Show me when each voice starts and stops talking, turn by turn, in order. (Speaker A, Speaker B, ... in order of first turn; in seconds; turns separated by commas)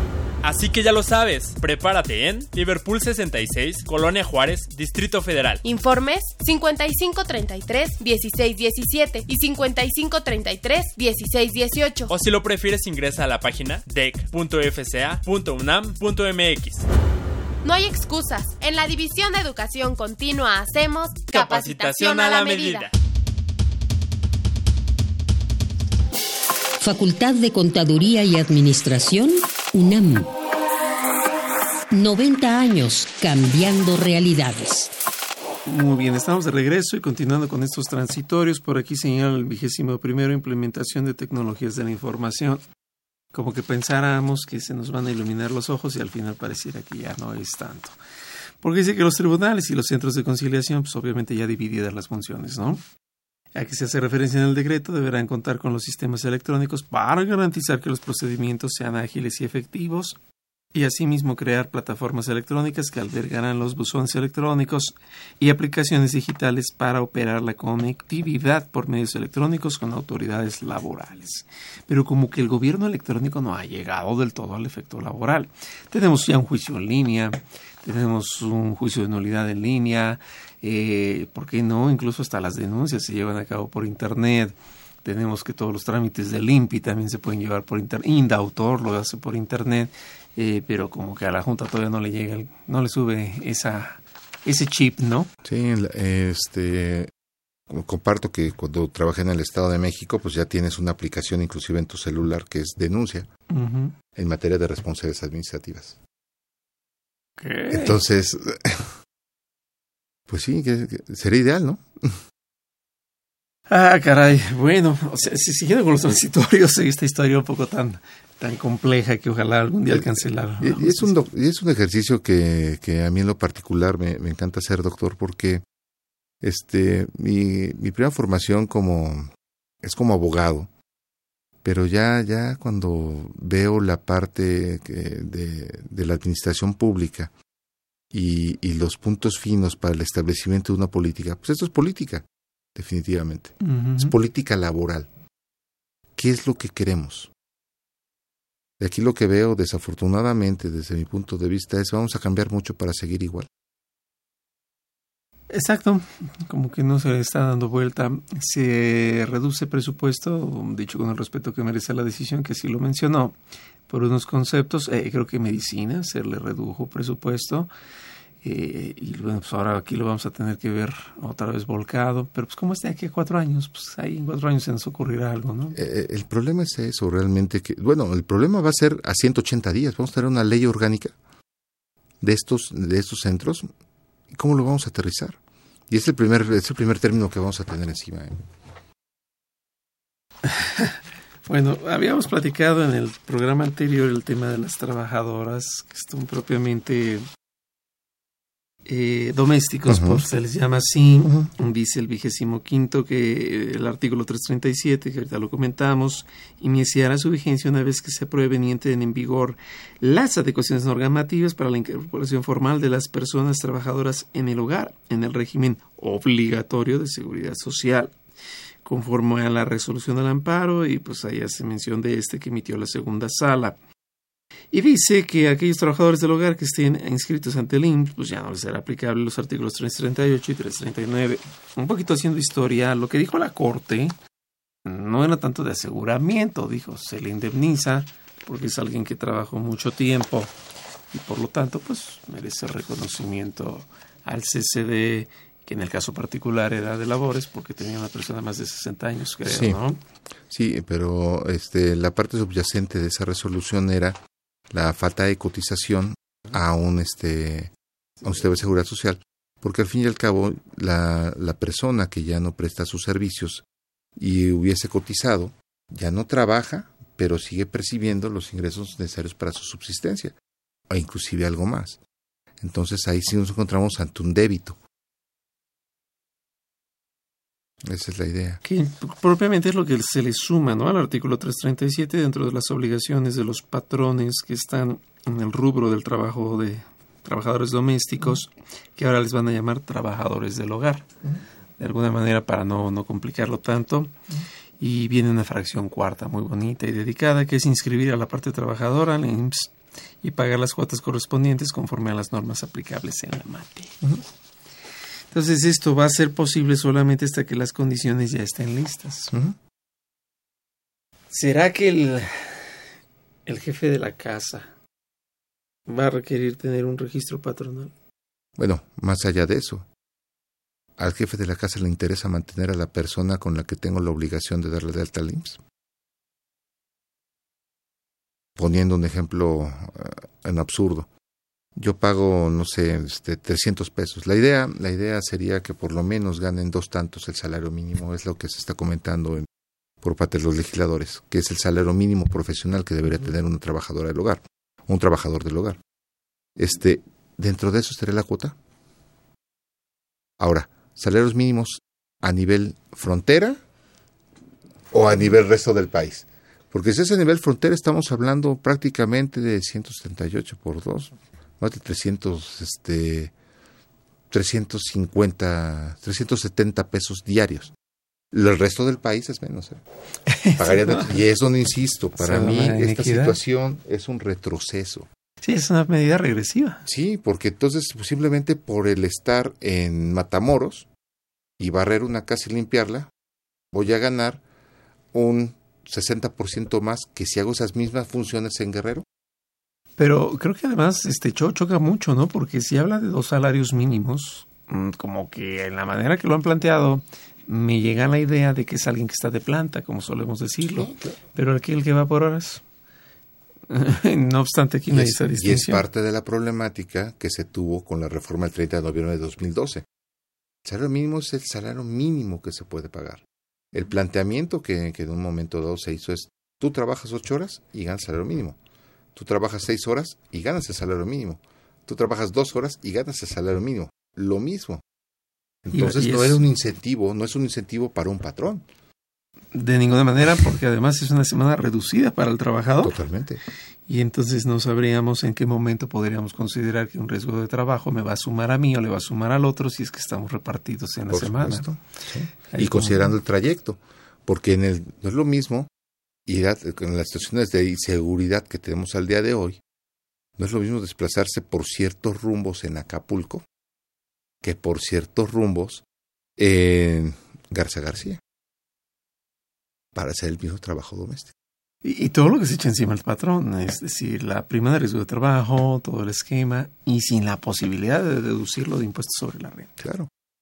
Speaker A: 0.4-5.6, Speaker B: 5.6-12.1, Speaker A: 12.1-16.8, Speaker B: 17.6-22.9, Speaker A: 21.3-22.9, Speaker C: 26.8-30.3, Speaker C: 31.9-34.9, Speaker D: 35.6-42.6, Speaker D: 43.3-48.0, Speaker D: 48.6-52.8, Speaker D: 53.5-60.2, Speaker D: 60.7-95.3, Speaker E: 95.4-97.1, Speaker E: 97.7-103.3, Speaker D: 103.5-103.9, Speaker E: 104.1-106.0, Speaker D: 107.4-108.0, Speaker E: 107.7-108.9, Speaker E: 110.3-112.2, Speaker D: 113.7-121.2, Speaker E: 119.9-125.6, Speaker E: 126.4-129.3, Speaker E: 129.8-130.7, Speaker E: 131.6-137.3, Speaker E: 138.1-145.1, Speaker D: 143.6-144.1, Speaker E: 146.2-147.3, Speaker E: 148.8-153.5, Speaker D: 155.5-163.3, Speaker D: 163.9-167.7, Speaker D: 168.4-175.8, Speaker E: 175.7-181.2, Speaker E: 182.2-183.7, Speaker E: 184.3-185.4, Speaker E: 185.9-188.4, Speaker D: 190.4-197.2, Speaker D: 198.8-218.1, Speaker E: 199.9-200.2, Speaker D: 218.8-223.8, Speaker D: 224.7-234.1, Speaker D: 234.8-240.5, Speaker D: 241.1-250.0, Speaker E: 249.4-249.8, Speaker E: 250.5-254.2, Speaker E: 254.7-257.7, Speaker E: 258.2-263.6, Speaker E: 264.2-270.3, Speaker E: 270.9-272.0, Speaker E: 272.6-274.8, Speaker E: 277.8-278.6, Speaker D: 278.6-291.1, Speaker D: 291.8-294.1, Speaker D: 294.8-304.0, Speaker D: 305.3-309.3, Speaker D: 311.3-312.7, Speaker D: 313.4-314.7, Speaker D: 315.9-317.9, Speaker E: 318.6-319.9, Speaker E: 321.0-325.6, Speaker E: 328.6-331.1, Speaker E: 331.8-339.5, Speaker E: 340.0-345.8, Speaker E: 346.6-348.6, Speaker E: 350.4-353.6, Speaker E: 354.9-363.3, Speaker E: 364.3-367.7, Speaker E: 368.3-369.8, Speaker D: 370.3-371.1, Speaker E: 370.6-375.1, Speaker D: 372.2-373.4, Speaker D: 375.4-376.8, Speaker E: 376.9-380.9, Speaker E: 381.6-383.1, Speaker E: 383.7-384.4, Speaker E: 385.1-389.0, Speaker D: 390.0-402.6, Speaker E: 400.7-401.1, Speaker D: 403.7-405.9, Speaker E: 404.9-409.9, Speaker E: 410.6-418.6, Speaker E: 419.1-424.8, Speaker E: 425.6-428.6, Speaker D: 425.7-426.4, Speaker D: 429.5-433.0, Speaker E: 432.8-433.4, Speaker D: 433.9-441.7, Speaker E: 441.1-445.7, Speaker D: 442.5-443.1, Speaker E: 446.2-449.6, Speaker E: 450.4-453.4, Speaker E: 454.4-455.8, Speaker E: 456.4-458.2, Speaker E: 459.9-461.3, Speaker D: 461.8-469.7, Speaker E: 469.8-470.1